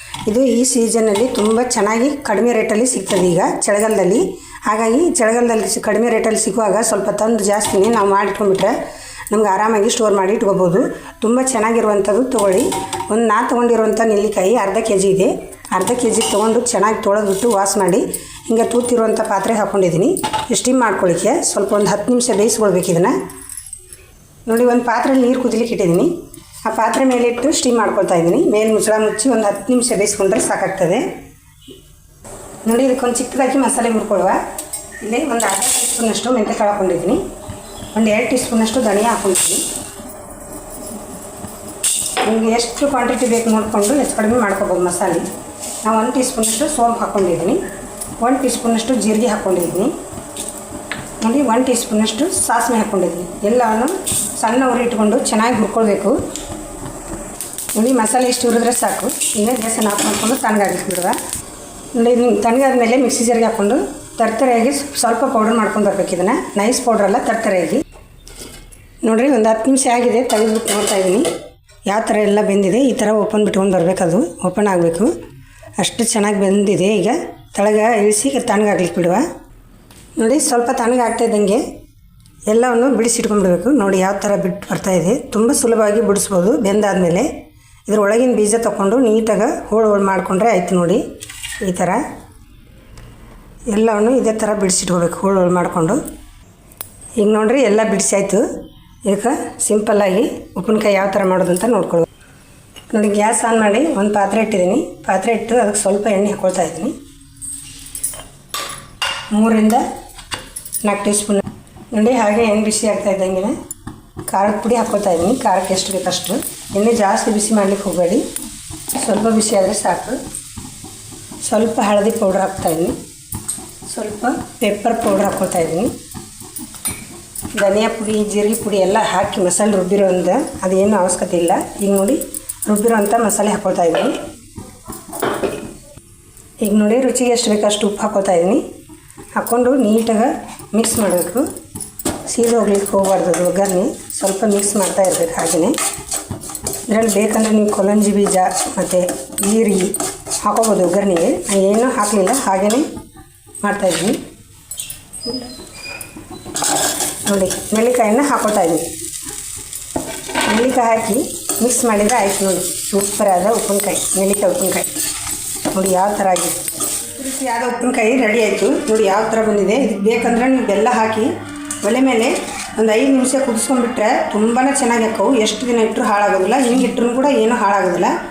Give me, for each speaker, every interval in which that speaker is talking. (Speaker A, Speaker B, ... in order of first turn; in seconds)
Speaker A: 0.3-8.7, 9.3-23.1, 24.5-26.1, 26.6-31.1, 32.6-34.4, 35.0-37.2, 37.9-39.6, 42.2-45.2, 45.8-47.6, 48.2-49.9, 51.2-56.2, 57.7-61.2, 61.9-67.8, 69.0-71.3, 71.9-75.1, 75.8-79.2, 80.2-81.6, 82.5-87.3, 87.9-91.0, 91.6-92.0, 93.7-96.0, 97.2-98.4, 99.0-102.1, 102.9-107.0, 109.3-109.8, 110.8-113.5, 114.3-118.2, 119.0-120.2, 121.4-123.0, 123.9-125.9, 127.5-134.2, 136.6-138.6, 139.3-141.4, 142.3-145.8, 146.9-152.8, 153.6-154.2, 155.2-155.5, 157.2-158.9, 160.4-164.9, 165.7-166.6, 167.2-171.3, 171.8-178.1